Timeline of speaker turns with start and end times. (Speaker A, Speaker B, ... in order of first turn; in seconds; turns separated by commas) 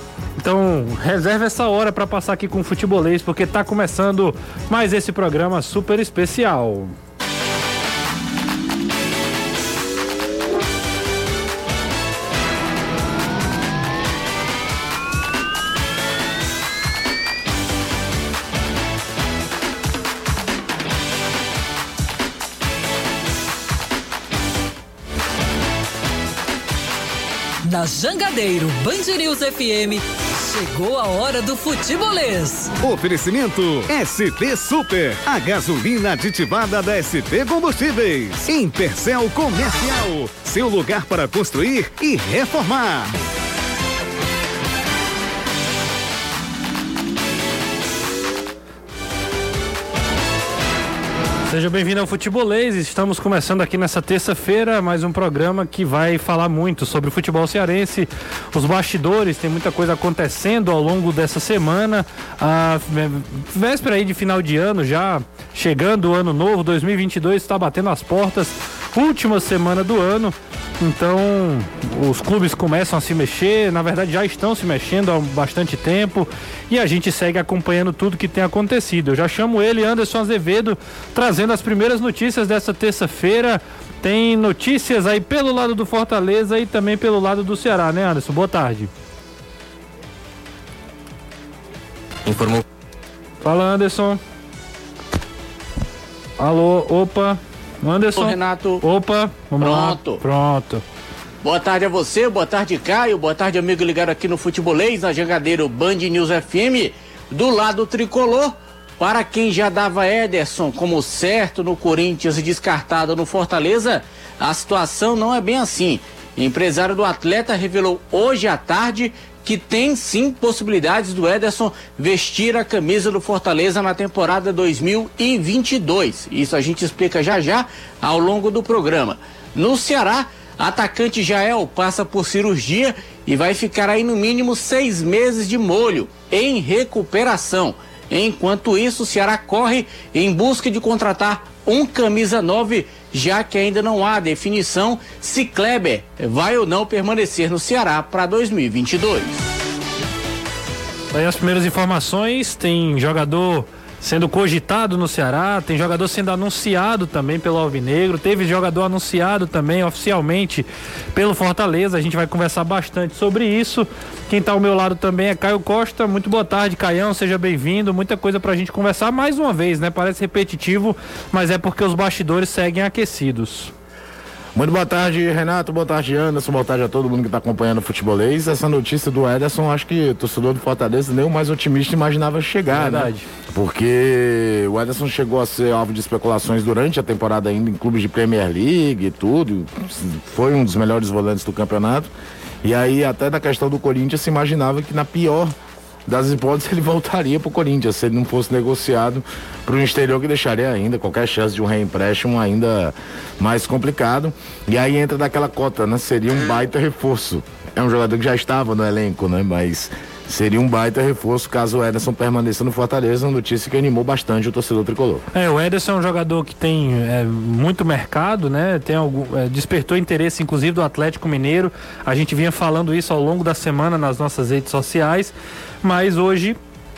Speaker A: 0.4-7.0, Speaker B: 27.6-32.7, Speaker C: 32.8-43.2, Speaker A: 51.5-88.9, Speaker A: 93.4-94.2, Speaker A: 96.4-100.8, Speaker D: 98.2-98.8, Speaker D: 99.6-100.2, Speaker D: 101.4-149.4, Speaker A: 151.1-173.7, Speaker E: 174.6-192.1, Speaker A: 182.7-183.3, Speaker E: 192.6-195.6, Speaker E: 196.1-215.2, Speaker A: 215.3-226.6